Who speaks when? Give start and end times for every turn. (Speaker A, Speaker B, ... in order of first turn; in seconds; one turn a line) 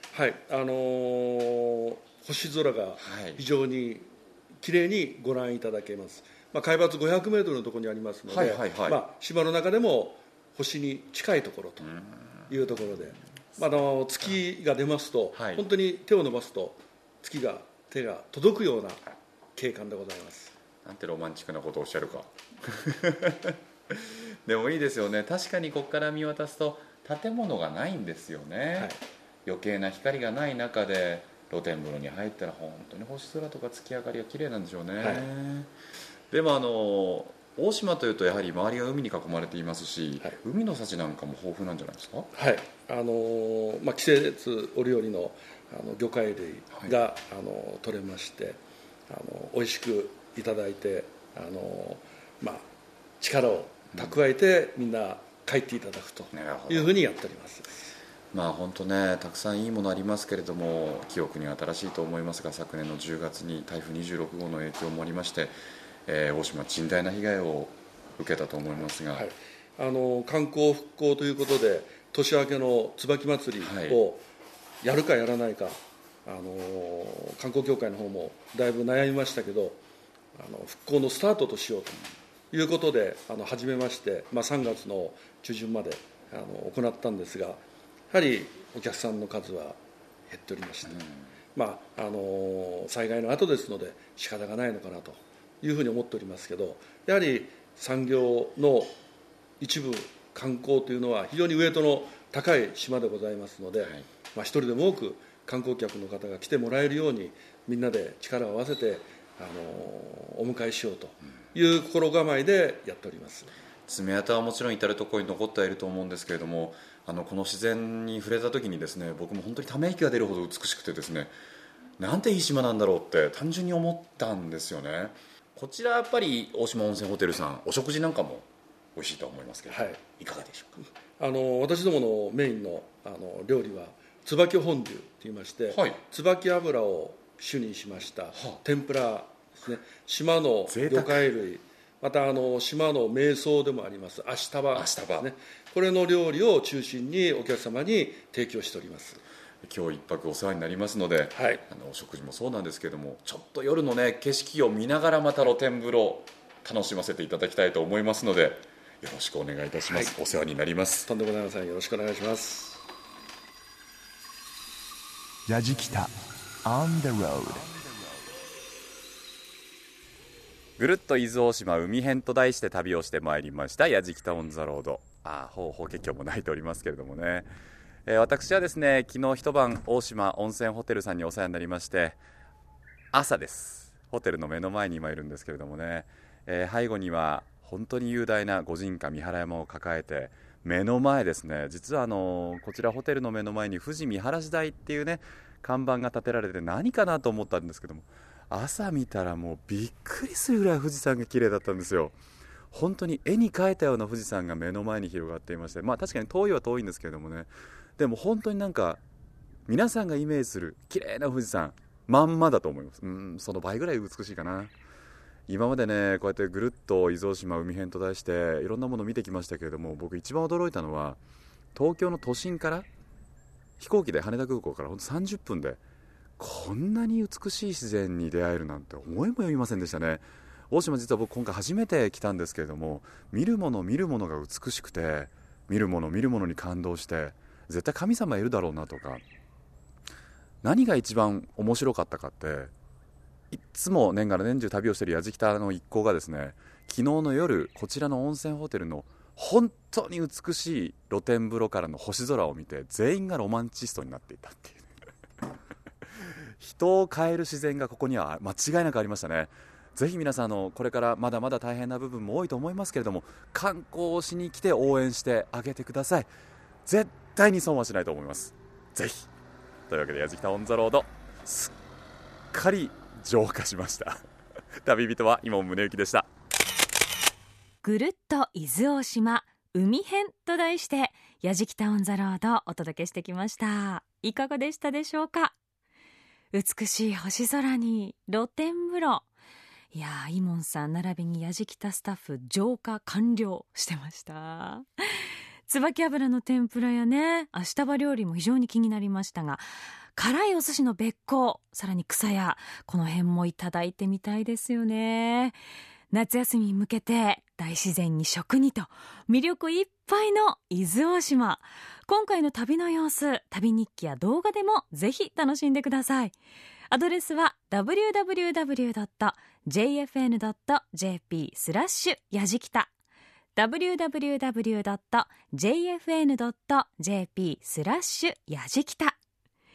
Speaker A: 0.1-11.9
Speaker B: 3.0-3.4
Speaker B: 8.3-9.0
Speaker B: 11.8-12.5
Speaker A: 12.5-19.1
Speaker B: 15.3-15.7
Speaker A: 19.6-20.5
Speaker B: 20.8-28.9
Speaker B: 29.5-35.7
Speaker A: 35.0-35.3
Speaker B: 36.3-42.3
Speaker A: 42.3-52.7
Speaker A: 53.2-58.0
Speaker B: 56.3-56.9
Speaker B: 58.3-65.5
Speaker B: 66.1-69.3
Speaker A: 69.1-74.2
Speaker B: 73.6-74.0
Speaker A: 74.8-79.8
Speaker A: 80.3-91.0
Speaker B: 90.9-91.2
Speaker A: 91.5-98.9
Speaker A: 99.6-113.5
Speaker B: 113.9-121.3
Speaker B: 122.0-130.8
Speaker A: 129.7-130.0
Speaker A: 130.8-149.2
Speaker B: 135.7-136.0
Speaker B: 138.3-138.6
Speaker B: 140.7-141.3
Speaker B: 144.8-145.3
Speaker B: 149.7-161.1
Speaker A: 151.3-151.6
Speaker A: 159.9-160.2
Speaker A: 161.1-162.8
Speaker C: 165.5-168.3
Speaker B: 170.8-177.5
Speaker B: 178.1-182.2
Speaker B: 183.1-202.2
Speaker B: 202.7-209.0
Speaker B: 209.7-214.7
Speaker B: 215.5-221.2
Speaker B: 221.8-222.9
Speaker B: 223.8-225.8
Speaker B: 226.4-239.2
Speaker B: 240.6-242.7
Speaker B: 243.5-254.9
Speaker B: 256.6-266.3
Speaker B: 266.9-269.3
Speaker B: 269.9-271.7
Speaker B: 272.5-274.2
Speaker B: 274.8-276.3
Speaker D: 277.8-285.6
Speaker D: 286.5-289.2
Speaker D: 289.9-294.9
Speaker D: 295.7-299.6
Speaker D: 300.2-305.6
Speaker D: 306.1-316.4
Speaker D: 316.9-322.9
Speaker D: 323.6-329.2